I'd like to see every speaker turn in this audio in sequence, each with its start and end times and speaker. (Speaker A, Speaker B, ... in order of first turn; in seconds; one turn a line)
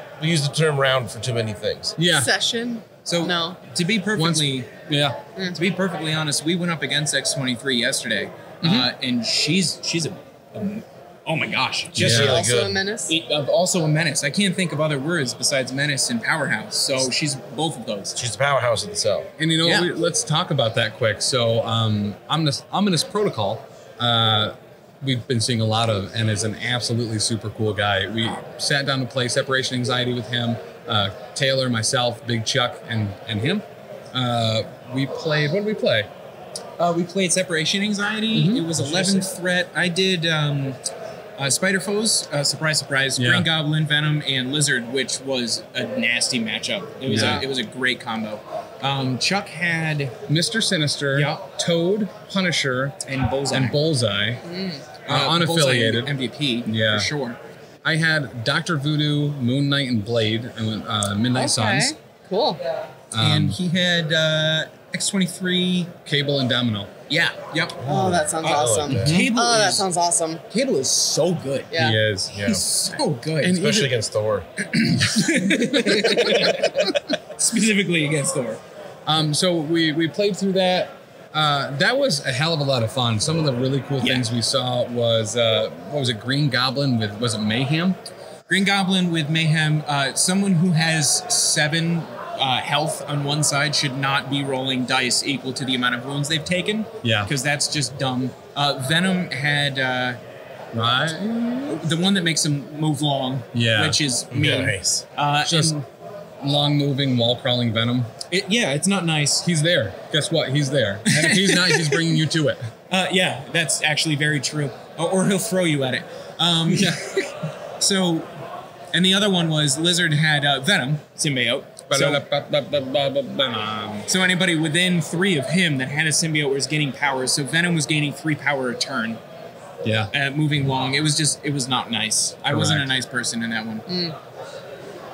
Speaker A: 0.2-2.0
Speaker B: 2.0-2.3
Speaker C: 2.0-3.6
Speaker D: 3.0-4.8
Speaker B: 4.1-5.2
Speaker D: 5.5-12.3
Speaker B: 8.6-8.9
Speaker B: 11.9-12.4
Speaker A: 12.0-12.8
Speaker C: 12.1-13.1
Speaker D: 13.1-18.2
Speaker A: 18.1-19.3
Speaker B: 19.4-36.1
Speaker D: 19.6-19.9
Speaker D: 36.8-40.8
Speaker B: 38.3-39.3
Speaker D: 41.4-50.1
Speaker B: 43.1-43.5
Speaker B: 47.0-47.5
Speaker C: 47.1-47.5
Speaker B: 50.3-53.0
Speaker D: 51.1-51.4
Speaker D: 53.0-53.8
Speaker B: 53.5-54.4
Speaker C: 54.4-54.8
Speaker D: 55.0-57.4
Speaker B: 55.1-56.1
Speaker B: 56.6-57.1
Speaker B: 57.8-61.9
Speaker C: 61.3-62.6
Speaker B: 63.1-63.6
Speaker D: 63.2-65.9
Speaker B: 66.0-66.9
Speaker D: 67.1-67.8
Speaker A: 67.8-69.2
Speaker C: 67.8-70.4
Speaker D: 68.4-69.8
Speaker B: 68.9-69.3
Speaker D: 70.5-71.7
Speaker C: 71.7-72.0
Speaker B: 71.7-72.3
Speaker A: 72.3-72.6
Speaker D: 72.3-73.6
Speaker B: 73.4-73.9
Speaker A: 73.5-74.5
Speaker D: 74.7-78.6
Speaker B: 75.1-76.9
Speaker B: 79.0-88.0
Speaker D: 84.0-84.3
Speaker D: 88.5-100.2
Speaker B: 97.0-97.3
Speaker B: 100.7-101.8
Speaker D: 101.7-105.8
Speaker B: 103.5-104.0
Speaker A: 104.3-105.0
Speaker B: 105.4-105.8
Speaker B: 106.4-108.1
Speaker D: 108.3-109.4
Speaker B: 109.4-112.7
Speaker D: 111.0-112.2
Speaker D: 112.9-117.0
Speaker B: 116.7-117.3
Speaker D: 117.8-118.3
Speaker D: 118.9-122.2
Speaker B: 121.9-124.1
Speaker D: 124.1-129.2
Speaker B: 129.8-130.1
Speaker D: 130.1-133.9
Speaker B: 132.5-132.9
Speaker C: 133.9-134.1